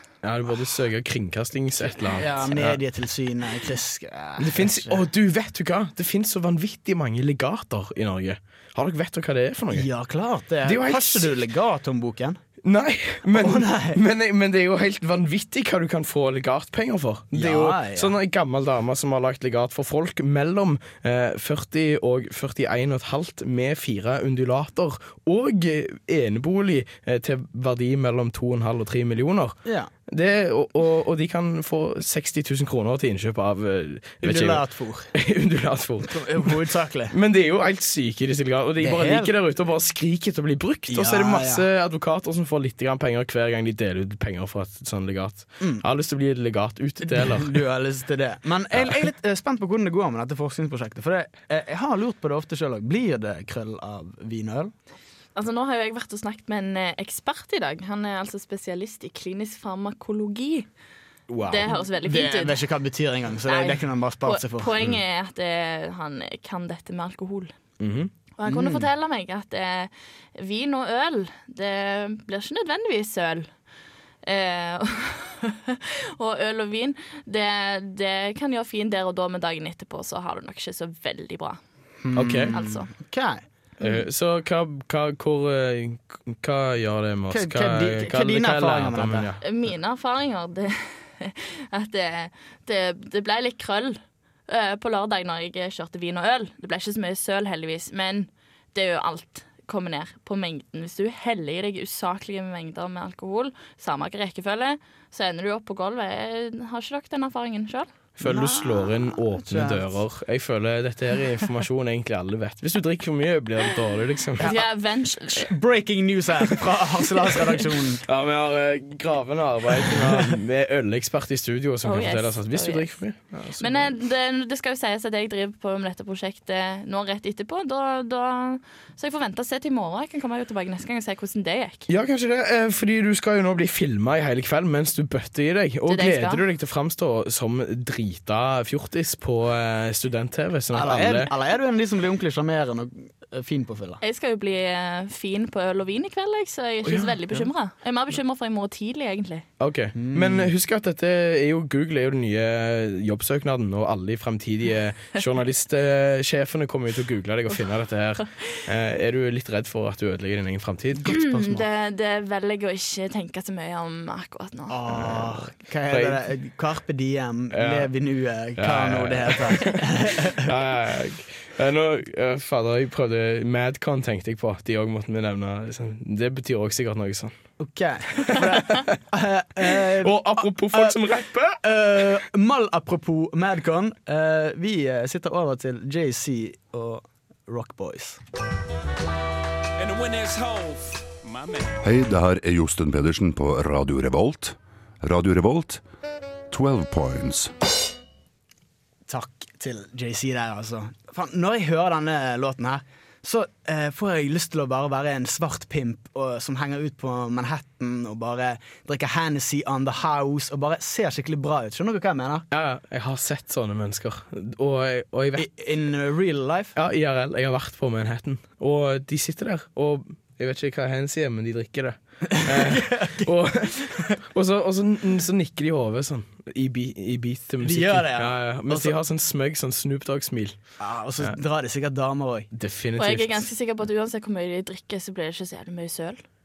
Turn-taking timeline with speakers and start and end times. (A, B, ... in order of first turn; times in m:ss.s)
0:00.2-0:02.8 A
0:01.9-0:05.0 B
0:04.4-0:09.9 A
0:09.7-0:12.4 B
0:10.6-0:11.4 A
0:12.6-0:34.6 A
0:13.3-0:14.0 B
0:17.3-0:18.1 B
0:29.6-0:29.9 B
0:34.2-0:35.1 B
0:35.1-0:36.6 A
0:36.1-0:37.2 B
0:37.1-0:47.6 A
0:38.8-0:39.3 B
0:40.9-0:41.6 B
0:47.0-0:54.7 B
0:48.7-0:49.0 A
0:55.4-1:00.7 C
1:01.3-1:04.9 B
1:01.5-1:02.6 C
1:03.5-1:07.5 C
1:07.8-1:08.1 A
1:08.4-1:13.5 C
1:08.5-1:08.9 B
1:14.2-1:21.6 C
1:22.0-1:23.4 B
1:22.2-1:22.6 A
1:22.5-1:22.9 C
1:23.8-1:29.4 A
1:27.3-1:29.3 B
1:29.4-1:47.9 C
1:48.2-1:54.5 A
1:48.2-1:50.0 B
1:54.4-1:54.7 B
1:54.4-1:55.5 C
1:55.3-1:58.0 B
1:58.1-2:04.0 A
1:59.9-2:00.3 B
2:01.8-2:02.9 C
2:03.6-2:11.9 C
2:11.9-2:21.3 A
2:15.9-2:16.4 C
2:20.7-2:24.0 B
2:24.0-2:29.4 C
2:26.9-2:27.4 B
2:29.6-2:41.2 A
2:30.0-2:30.5 B
2:41.0-2:41.7 B
2:41.1-2:44.8 C
2:44.7-2:50.5 B
2:44.9-2:46.2 A
2:47.5-2:47.9 A
2:48.6-2:57.4 A
2:57.6-3:01.0 B
2:58.3-2:58.9 A
2:59.9-3:02.0 A
3:01.6-3:08.2 B
3:09.8-3:11.9 D
3:11.8-3:15.8 E
3:16.5-3:17.5 E
3:19.1-3:32.5 B
3:32.5-3:35.5 A
3:35.4-3:36.7 B
3:36.8-3:50.6 A
3:42.3-3:44.1 B
3:47.6-3:49.0 B
3:50.8-3:52.5 B
3:52.5-3:53.5 A
3:53.0-3:56.2 C